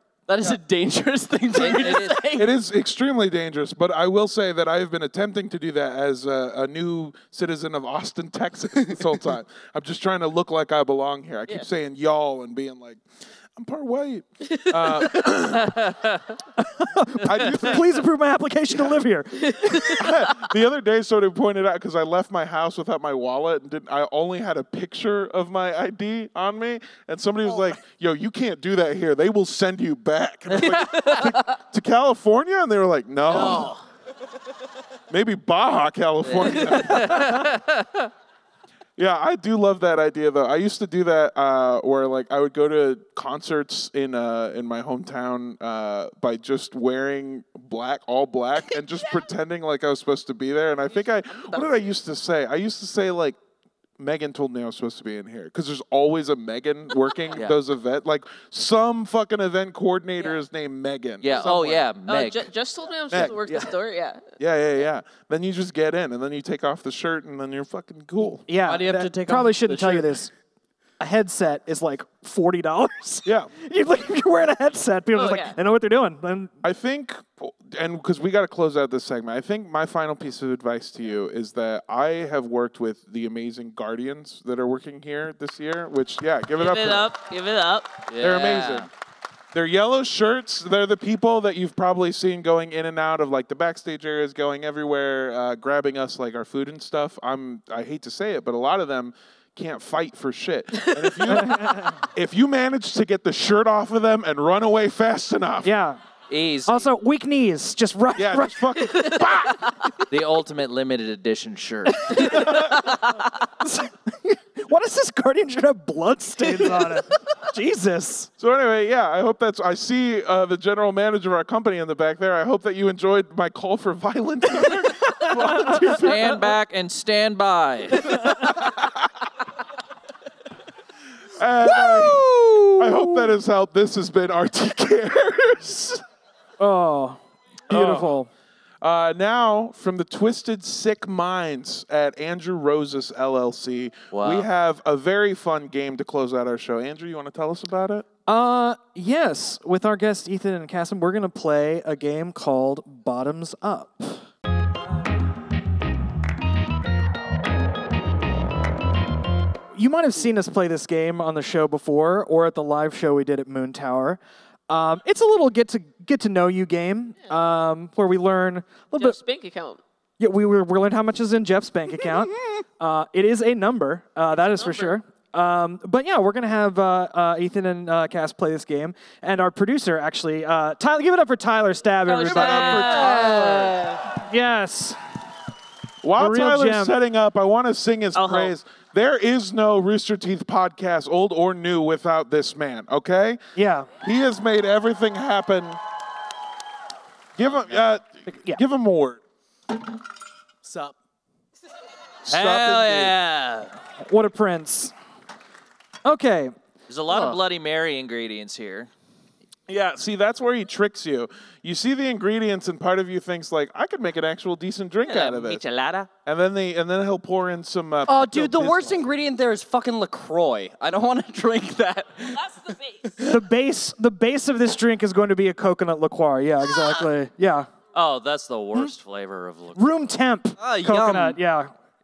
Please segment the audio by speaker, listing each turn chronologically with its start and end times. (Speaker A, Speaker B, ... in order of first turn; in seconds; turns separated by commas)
Speaker A: 0.3-2.5, Speaker B: 1.5-2.3, Speaker C: 2.3-13.0, Speaker C: 13.6-15.9, Speaker D: 14.4-15.3, Speaker B: 15.5-16.4, Speaker E: 16.6-20.0, Speaker C: 17.2-18.0, Speaker D: 19.4-20.1, Speaker C: 19.9-33.8, Speaker B: 30.5-31.0, Speaker D: 30.6-31.6, Speaker D: 33.3-33.8, Speaker C: 35.1-37.5, Speaker B: 36.2-38.1, Speaker C: 39.0-53.4, Speaker D: 51.3-51.9, Speaker C: 54.0-61.8, Speaker B: 61.2-62.5, Speaker D: 62.0-64.3, Speaker C: 63.1-63.7, Speaker C: 64.4-68.4, Speaker E: 68.5-70.3, Speaker A: 68.6-70.2, Speaker E: 71.0-76.5, Speaker C: 73.2-73.5, Speaker D: 75.1-75.6, Speaker C: 76.6-87.1, Speaker D: 86.6-88.0, Speaker B: 88.1-88.9, Speaker C: 88.2-88.9, Speaker C: 89.5-105.7, Speaker E: 101.3-102.0, Speaker E: 105.6-106.0, Speaker B: 106.3-106.9, Speaker E: 106.7-108.9, Speaker C: 108.2-109.7, Speaker D: 108.8-109.3, Speaker B: 110.1-112.5, Speaker E: 112.1-113.0, Speaker C: 112.2-112.7, Speaker D: 112.3-113.2, Speaker E: 113.6-118.3, Speaker C: 118.4-126.5, Speaker B: 125.7-128.3, Speaker C: 128.2-129.1, Speaker C: 131.3-136.0, Speaker E: 131.7-133.3, Speaker E: 136.6-138.3, Speaker C: 137.7-138.1, Speaker C: 138.8-148.0, Speaker B: 144.1-144.5, Speaker E: 148.3-154.2, Speaker E: 159.7-169.2, Speaker D: 168.9-169.8, Speaker E: 170.2-185.0, Speaker D: 174.5-175.0, Speaker D: 182.1-183.5, Speaker C: 182.2-183.7, Speaker A: 183.0-184.0, Speaker C: 186.0-193.4, Speaker E: 186.2-186.9, Speaker D: 188.1-188.5, Speaker E: 193.5-193.9, Speaker C: 194.0-195.8, Speaker C: 197.4-199.2, Speaker E: 198.2-198.6, Speaker C: 202.2-203.1, Speaker B: 202.3-203.8, Speaker E: 204.0-204.9, Speaker E: 206.0-206.5, Speaker B: 206.9-208.9, Speaker C: 209.7-215.6, Speaker B: 215.1-216.1, Speaker C: 216.2-219.0, Speaker A: 218.1-223.4, Speaker D: 222.3-223.1, Speaker E: 223.2-227.7, Speaker B: 227.9-230.0, Speaker E: 229.7-231.7, Speaker A: 230.6-231.4